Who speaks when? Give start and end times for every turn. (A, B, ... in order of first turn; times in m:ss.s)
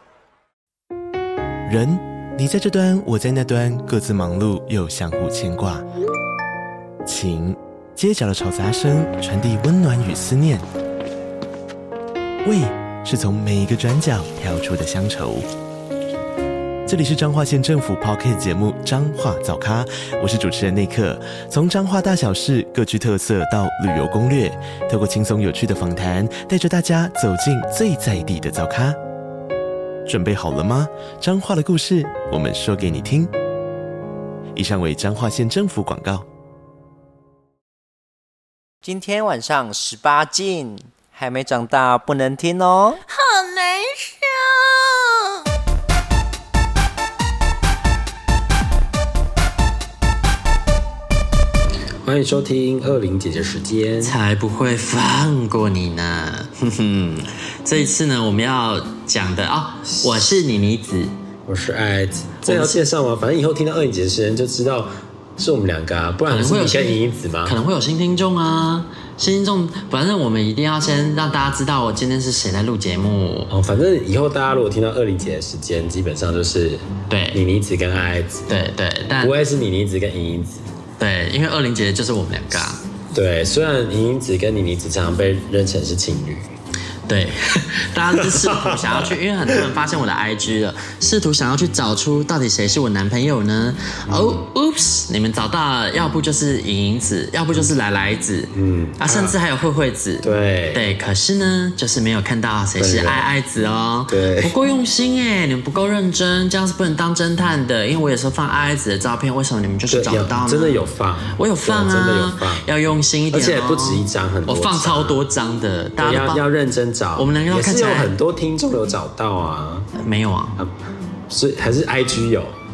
0:01.7-0:05.8 A
0:07.0-0:10.6 A
0:12.4-0:15.5 A
0:16.9-0:29.0 A
0:30.1-0:33.3 A
0:34.6-0:36.2 A
0:38.8-0:43.0 B
0:43.0-0:45.5 C
0:52.0-0:54.2 D
0:54.0-1:01.1 E
1:01.5-1:07.6 D
1:02.4-1:02.8 E
1:06.3-1:13.5 E
1:13.5-1:18.5 D
1:17.1-1:17.4 E
1:18.5-1:19.4 E
1:19.2-1:20.6 D
1:21.0-1:22.8 E
1:23.1-1:26.5 D
1:27.1-1:50.8 E
1:28.2-1:29.2 D
1:34.1-1:34.4 D
1:38.5-1:39.4 D
1:40.2-1:40.8 D
1:42.8-1:43.3 D
1:44.1-1:44.5 D
1:49.9-1:52.7 D
1:51.4-1:56.4 E
1:53.3-1:55.2 D
1:56.0-1:59.9 D
1:57.2-1:58.1 E
2:00.0-2:00.6 E
2:01.3-2:02.5 D